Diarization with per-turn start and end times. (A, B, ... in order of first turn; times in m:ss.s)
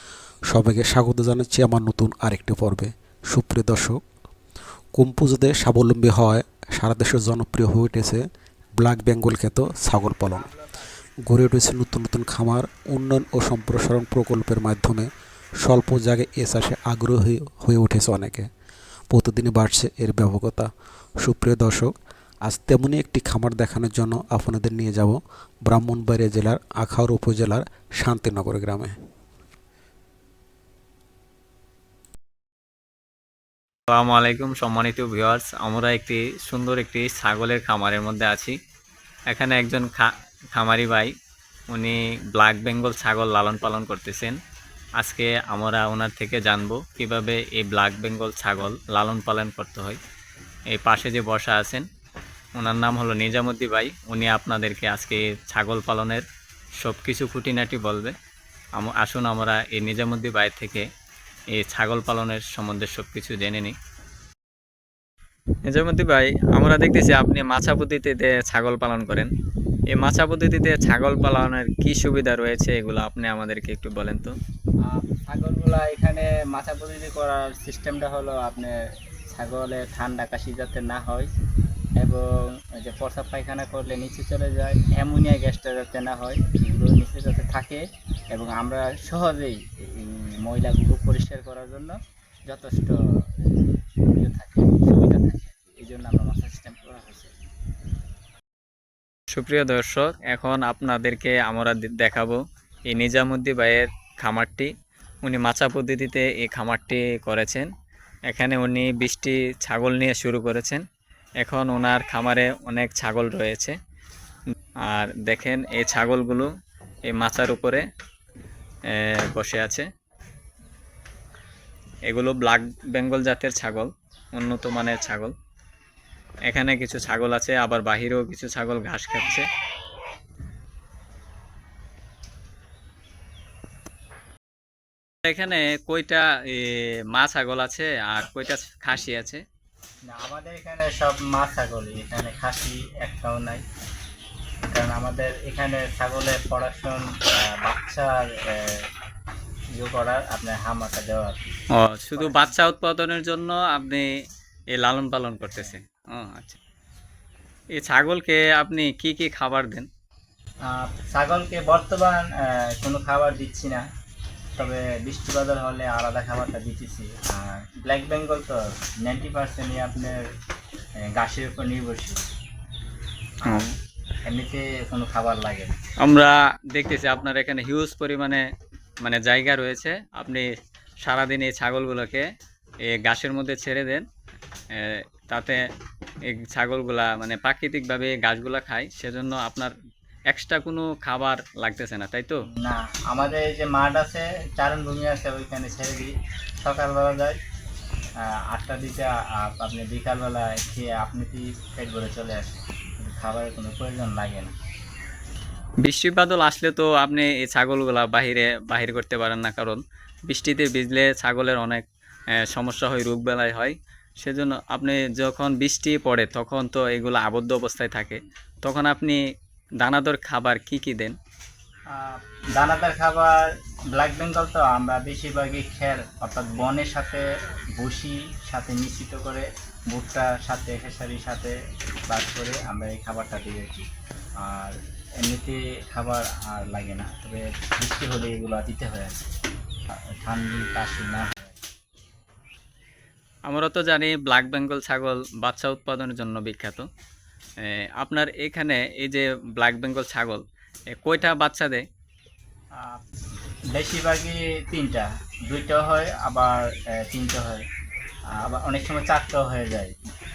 0:00.5-0:04.0 A
0:04.9-0:08.2 A
0:08.8-0:10.6 A
0:11.3-0:15.1 A
0:15.6-0:18.5 A
0:19.1-0:20.7 A
0:21.2-0:21.9 A
0:22.4-0:29.0 A
0:33.9-0:38.5 B
0:39.3-0:41.1 B
0:41.7-0:44.4 B
0:45.0-0:50.0 B
0:50.7-0:51.8 B
0:52.6-0:56.2 B
0:56.8-0:58.1 B
0:58.8-1:00.8 B
1:01.5-1:03.8 B
1:05.7-1:09.3 B
1:09.9-1:14.3 B
1:14.9-1:18.7 C
1:19.3-1:21.3 C
1:22.0-1:32.0 C
1:32.5-1:33.7 C
1:34.2-1:37.3 C
1:39.3-1:44.7 B
1:45.2-1:47.7 B
1:48.3-1:50.8 B
1:51.4-1:53.8 B
1:54.9-1:56.5 B
1:57.1-1:57.8 B
1:58.9-1:59.9 B
2:02.1-2:05.3 B
2:06.5-2:09.4 B
2:15.2-2:19.4 B
2:20.1-2:23.6 C
2:24.7-2:28.8 C
2:29.7-2:31.4 C
2:31.8-2:34.1 B
2:32.2-2:32.5 C
2:34.7-2:36.6 B
2:35.4-2:35.8 C
2:37.8-2:39.9 B
2:40.6-2:43.8 C
2:44.6-2:50.2 C
2:51.1-2:52.2 C
2:53.4-2:53.7 C
2:53.4-2:53.7 B
2:54.2-2:55.7 C
2:56.0-2:58.4 B
2:59.0-3:00.4 B
3:01.0-3:02.2 B
3:02.9-3:04.0 B
3:04.7-3:05.6 B
3:06.3-3:09.7 B
3:10.3-3:12.4 B
3:12.6-3:17.4 C
3:18.2-3:24.5 C
3:25.8-3:31.8 B
3:32.4-3:39.2 B
3:39.8-3:41.2 B
3:41.9-3:47.2 C
3:47.8-3:51.6 C
3:52.1-3:53.9 C
3:54.4-3:59.2 C
4:00.2-4:01.6 C
4:03.5-4:06.8 B
4:07.6-4:11.8 B
4:12.8-4:13.0 C
4:13.7-4:17.6 C
4:18.3-4:19.9 C